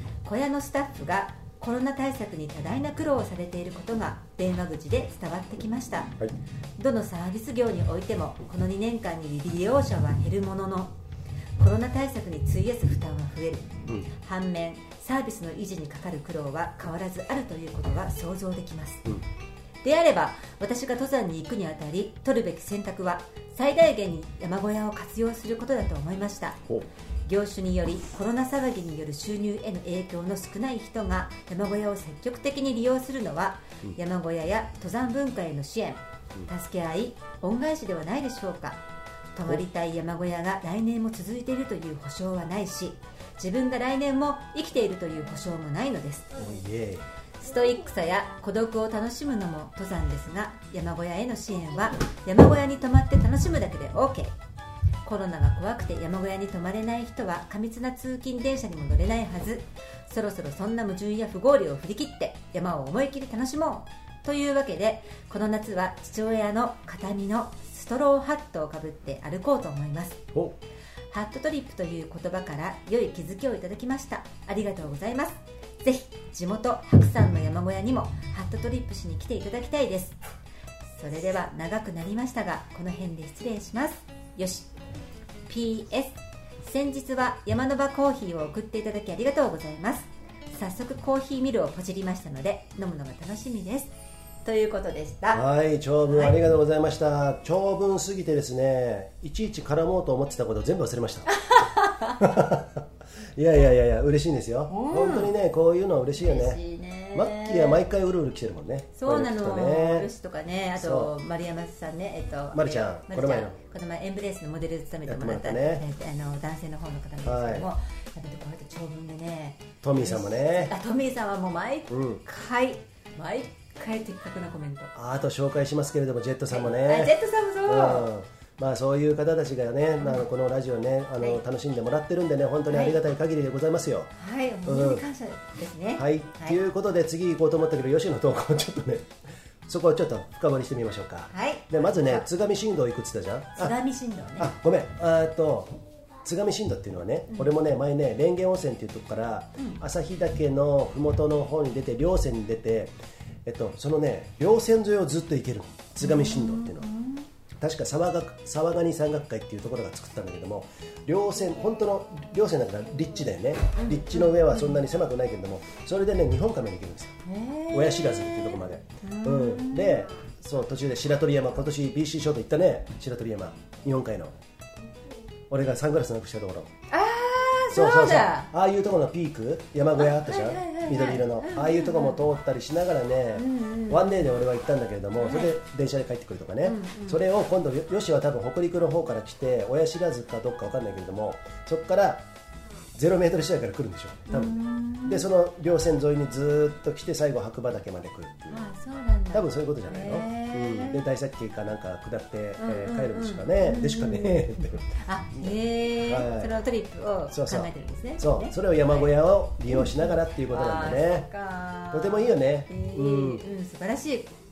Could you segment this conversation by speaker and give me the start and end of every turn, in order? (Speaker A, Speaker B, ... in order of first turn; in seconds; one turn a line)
Speaker A: 0.2-6.1
Speaker A: 6.8-10.9
Speaker A: 11.6-19.1
Speaker A: 19.8-26.6
Speaker A: 27.2-38.8
Speaker A: 39.3-46.4
Speaker B: 46.3-47.1
Speaker A: 47.4-54.3
Speaker A: 55.0-70.2
Speaker A: 71.1-80.2
Speaker A: 81.0-84.7
Speaker A: 85.5-93.9
Speaker A: 94.4-95.4
Speaker B: 95.3-101.3
Speaker A: 96.1-96.4
Speaker A: 101.3-102.2
Speaker B: 102.2-102.8
Speaker B: 103.3-106.6
Speaker A: 104.7-105.3
Speaker A: 106.2-107.8
Speaker B: 107.1-110.1
Speaker A: 109.0-124.9
Speaker B: 110.8-111.1
Speaker B: 112.5-113.5
Speaker B: 115.0-115.8
Speaker B: 117.2-117.7
Speaker B: 119.8-120.7
Speaker B: 121.9-122.2
Speaker B: 124.9-134.1
Speaker A: 126.5-128.1
Speaker A: 132.7-133.0
Speaker A: 134.1-136.6
Speaker B: 134.6-135.0
Speaker B: 135.9-139.1
Speaker B: 139.7-143.8
Speaker A: 141.3-142.3
Speaker A: 143.6-144.5
Speaker B: 144.4-152.9
Speaker B: 153.4-156.9
Speaker A: 156.0-157.2
Speaker B: 157.6-174.3
Speaker A: 163.8-164.8
Speaker A: 167.2-170.1
Speaker B: 175.5-176.7
Speaker A: 176.9-178.5
Speaker B: 177.7-192.2
Speaker A: 180.0-182.2
Speaker A: 183.3-184.3
Speaker A: 185.2-185.5
Speaker A: 186.6-187.2
Speaker B: 192.9-198.6
Speaker A: 194.3-195.3
Speaker A: 198.5-201.0
Speaker B: 199.3-206.5
Speaker A: 202.6-209.1
Speaker B: 207.3-211.3
Speaker A: 209.7-214.3
Speaker B: 211.9-213.4